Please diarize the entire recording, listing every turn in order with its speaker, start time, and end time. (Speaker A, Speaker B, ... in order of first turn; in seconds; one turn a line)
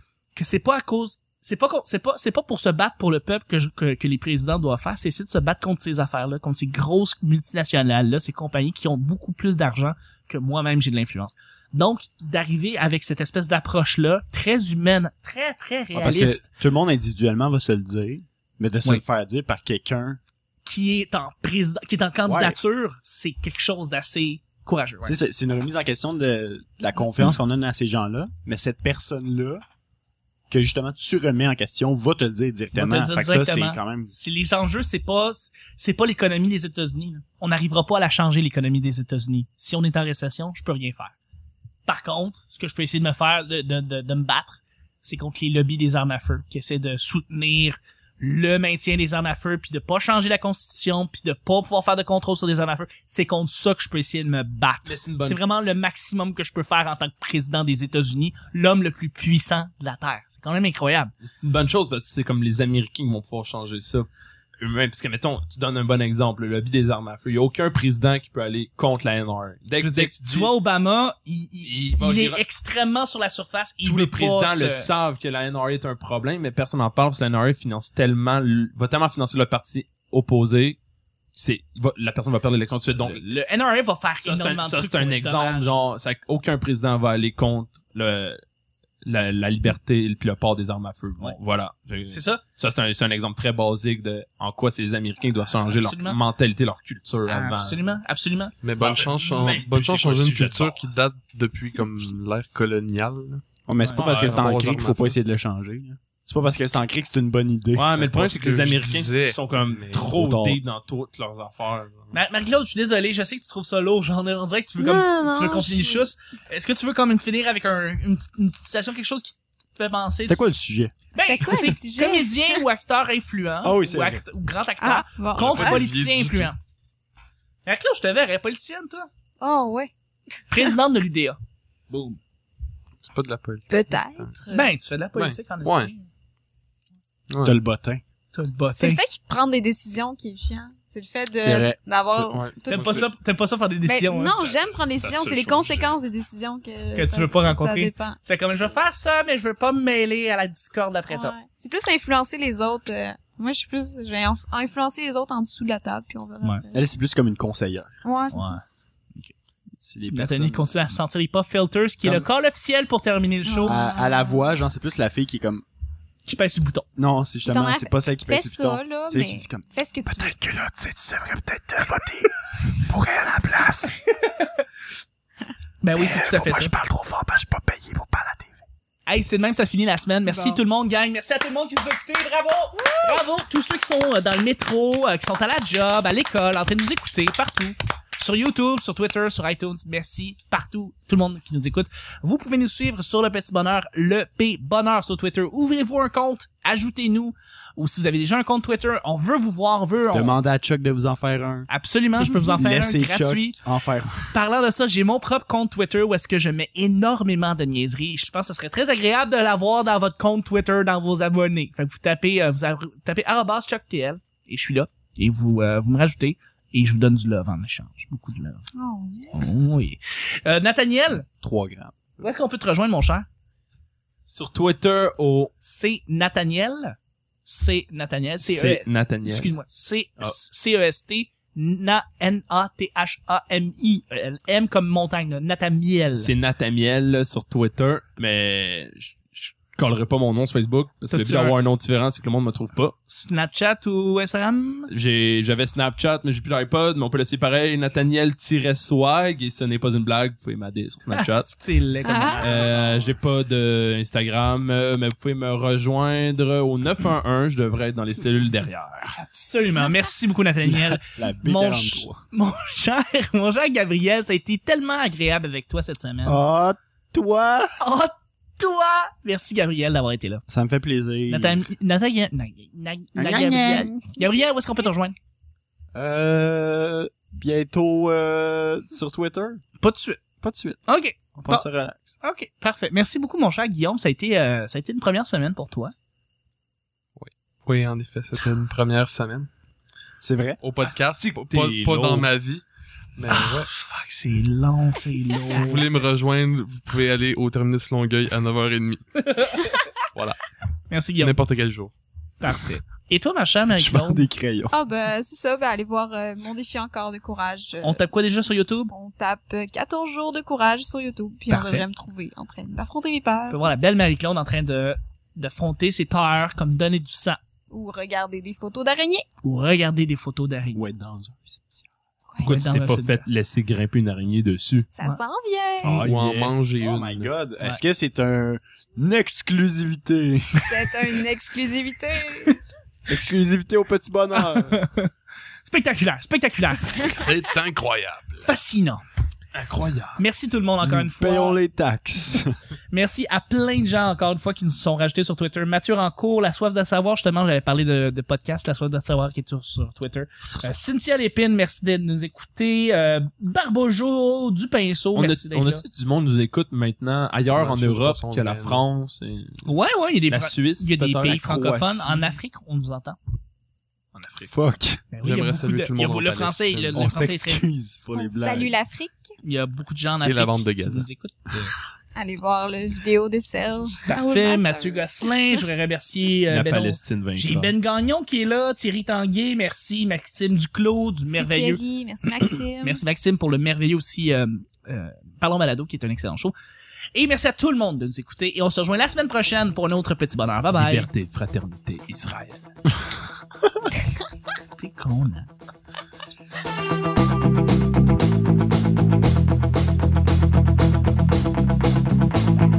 Speaker A: 0.3-16.5
Speaker B: 15.9-20.2
Speaker A: 20.6-25.1
Speaker B: 22.2-22.6
Speaker B: 25.0-29.6
Speaker B: 30.5-34.1
Speaker A: 32.7-41.1
Speaker A: 41.9-61.1
Speaker C: 54.8-55.4
Speaker C: 61.2-64.1
Speaker C: 64.6-70.5
Speaker A: 69.7-74.9
Speaker C: 71.6-72.4
Speaker C: 73.8-80.8
Speaker C: 81.3-83.2
Speaker A: 83.0-85.7
Speaker C: 84.2-88.4
Speaker C: 89.0-98.0
Speaker A: 92.1-92.4
Speaker A: 95.5-96.2
Speaker A: 97.3-98.5
Speaker D: 98.6-105.2
Speaker C: 98.8-101.0
Speaker B: 103.7-108.0
Speaker C: 104.0-104.5
Speaker C: 107.7-112.1
Speaker D: 107.9-109.4
Speaker B: 109.9-110.6
Speaker A: 112.1-120.4
Speaker E: 114.8-116.1
Speaker B: 120.3-120.9
Speaker A: 121.1-126.6
Speaker E: 121.2-122.6
Speaker B: 123.6-124.2
Speaker E: 124.8-125.8
Speaker D: 125.3-126.5
Speaker A: 127.6-129.1
Speaker E: 129.4-129.9
Speaker A: 130.5-131.4
Speaker D: 133.0-134.3
Speaker E: 133.7-134.7
Speaker A: 134.5-136.1
Speaker D: 135.2-135.9
Speaker D: 137.3-137.6
Speaker B: 137.4-138.0
Speaker A: 138.3-139.0
Speaker E: 138.8-143.1
Speaker B: 141.4-141.8
Speaker D: 142.1-143.0
Speaker A: 142.7-144.3
Speaker E: 143.8-148.2
Speaker C: 144.3-146.0
Speaker A: 146.9-151.3
Speaker E: 151.1-156.8
Speaker B: 156.7-157.9
Speaker E: 158.0-158.5
Speaker A: 158.3-158.6
Speaker B: 159.8-161.0
Speaker A: 160.1-163.8
Speaker E: 163.4-164.5
Speaker B: 163.7-165.6
Speaker A: 166.2-166.9
Speaker B: 166.9-174.0
Speaker E: 167.4-170.3
Speaker A: 174.2-174.6
Speaker A: 175.8-176.7
Speaker B: 176.0-178.5
Speaker A: 179.1-200.4
Speaker B: 180.3-180.6
Speaker B: 200.1-204.3
Speaker A: 201.7-203.6
Speaker A: 204.3-218.7
Speaker E: 218.7-219.6
Speaker A: 219.3-221.3
Speaker B: 221.4-222.1
Speaker A: 222.2-223.3
Speaker C: 224.3-225.5
Speaker A: 225.6-236.3
Speaker C: 228.4-229.5
Speaker C: 236.2-242.9
Speaker A: 241.1-241.6
Speaker A: 243.1-244.9
Speaker C: 244.9-251.5
Speaker A: 251.1-253.1
Speaker E: 252.0-252.6
Speaker C: 252.4-259.2
Speaker A: 259.2-266.4
Speaker B: 260.6-262.2
Speaker B: 266.2-267.8
Speaker A: 267.8-270.4
Speaker B: 270.5-271.6
Speaker A: 271.3-275.1
Speaker B: 273.1-274.1
Speaker B: 275.9-279.6
Speaker A: 279.8-280.2
Speaker B: 280.4-280.8
Speaker A: 280.9-281.7
Speaker B: 281.3-282.1
Speaker A: 282.2-285.9
Speaker D: 287.2-289.5
Speaker B: 290.2-290.6
Speaker D: 290.6-292.6
Speaker C: 290.8-292.3
Speaker D: 293.1-293.7
Speaker A: 293.3-295.9
Speaker D: 295.4-299.3
Speaker A: 299.2-299.7
Speaker A: 300.9-301.4
Speaker D: 301.2-301.9
Speaker A: 302.4-304.2
Speaker B: 303.8-304.7
Speaker E: 304.7-308.0
Speaker A: 307.8-308.9
Speaker E: 308.9-313.6
Speaker A: 311.5-311.9
Speaker A: 313.5-317.4
Speaker E: 317.7-319.2
Speaker A: 319.4-320.8
Speaker B: 320.7-321.8
Speaker C: 322.4-324.9
Speaker A: 322.4-323.2
Speaker E: 324.9-326.1
Speaker C: 325.8-326.5
Speaker D: 325.9-327.3
Speaker B: 326.8-330.9
Speaker E: 330.7-332.6
Speaker B: 333.1-334.8
Speaker A: 334.4-335.1
Speaker A: 335.6-337.1
Speaker D: 337.0-338.5
Speaker A: 338.4-339.0
Speaker C: 339.5-340.2
Speaker A: 340.2-341.6
Speaker B: 340.8-342.5
Speaker A: 342.9-355.8
Speaker C: 355.1-359.6
Speaker D: 357.5-358.8
Speaker A: 359.6-363.2
Speaker C: 360.3-361.6
Speaker B: 361.3-362.2
Speaker C: 364.1-364.4
Speaker B: 364.4-365.0
Speaker A: 365.1-367.6
Speaker D: 365.2-367.1
Speaker B: 366.9-368.8
Speaker E: 368.1-369.3
Speaker A: 369.4-371.7
Speaker D: 370.2-371.1
Speaker E: 372.1-375.0
Speaker A: 374.0-381.8
Speaker C: 376.5-377.7
Speaker E: 381.3-383.0
Speaker A: 382.4-386.5
Speaker A: 387.1-391.1
Speaker C: 390.7-392.7
Speaker A: 394.8-395.5